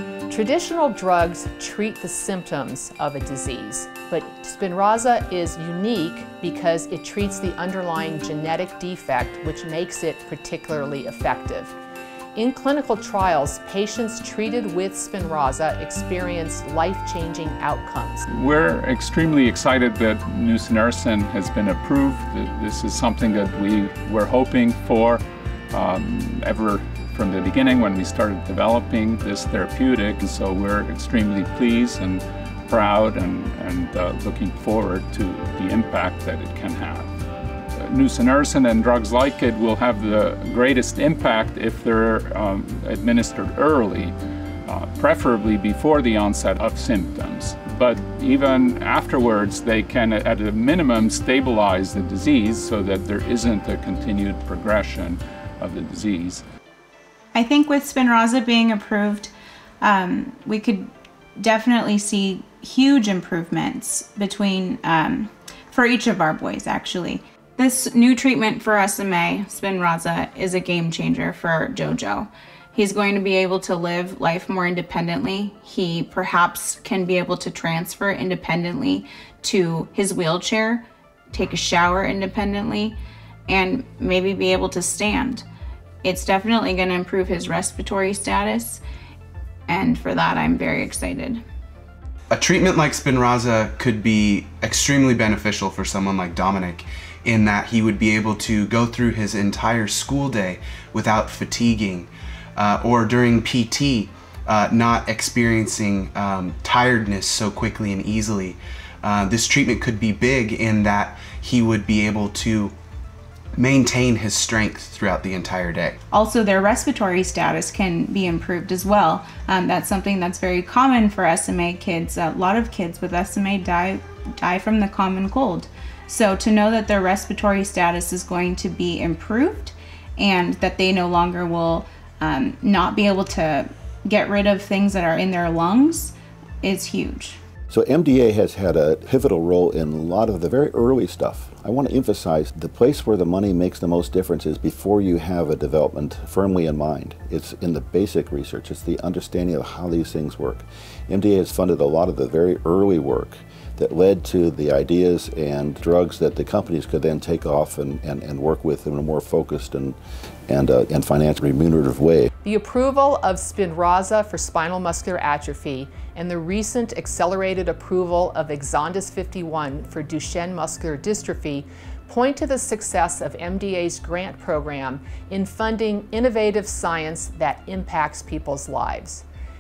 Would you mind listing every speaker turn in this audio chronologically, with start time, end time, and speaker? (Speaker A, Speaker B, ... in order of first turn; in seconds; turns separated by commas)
Speaker A: 0.3-11.8, Speaker A: 12.3-18.3, Speaker B: 18.3-37.1, Speaker B: 37.8-44.1, Speaker B: 44.6-56.4, Speaker C: 57.3-85.4, Speaker C: 86.0-88.8, Speaker C: 89.7-91.4, Speaker D: 92.3-112.7, Speaker D: 113.6-116.0, Speaker C: 116.1-137.4, Speaker E: 137.7-162.3, Speaker A: 162.4-179.2